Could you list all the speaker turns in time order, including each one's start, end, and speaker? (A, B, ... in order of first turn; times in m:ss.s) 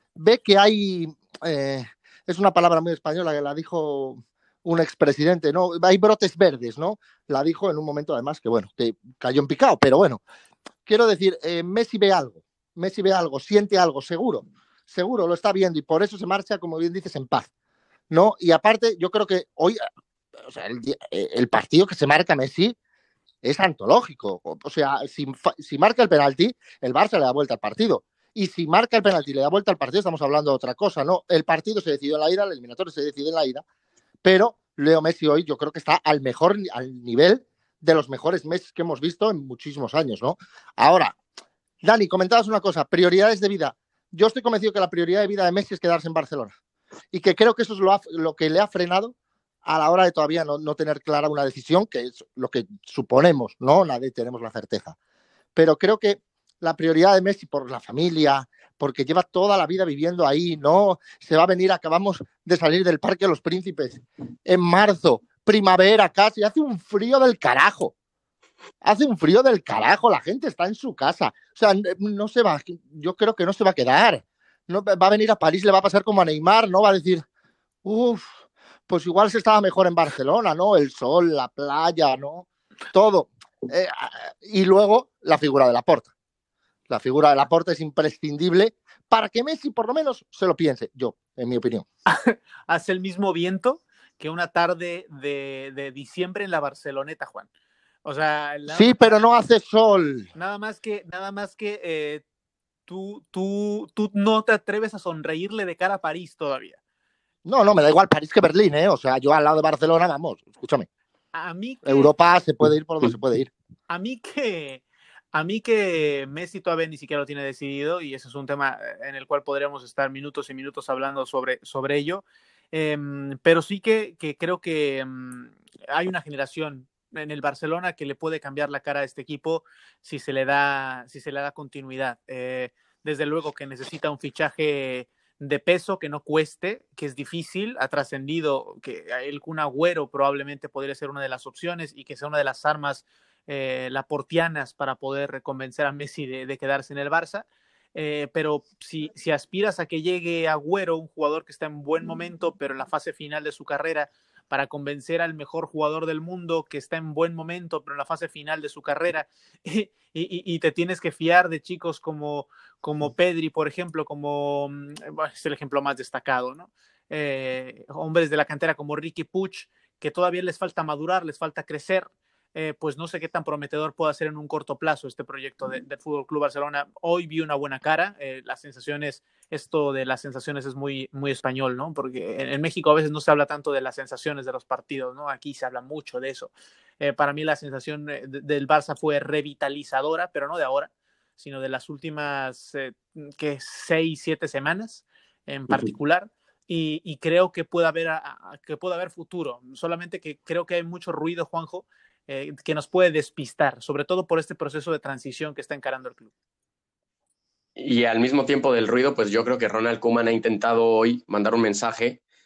0:00.2-0:10.2 A
0:10.9-0:17.5 A
0:18.1-0:19.8 A
0:20.5-0:22.8 A
0:23.4-0:33.6 A
0:34.2-0:41.2 A
0:41.8-0:46.5 A
0:47.1-0:49.1 A
0:49.6-0:55.0 A
0:55.6-1:07.9 A
1:08.8-1:17.2 A
1:17.8-1:26.1 A
1:26.9-1:31.8 A
1:32.1-1:37.5 B
1:38.0-1:39.2 B
1:38.7-1:40.3 A
1:40.4-1:42.2 B
1:42.9-1:46.8 B
1:47.4-1:50.9 A
1:51.3-1:52.1 B
1:51.8-1:53.5 A
1:53.9-3:26.3 B
3:27.8-3:32.2 C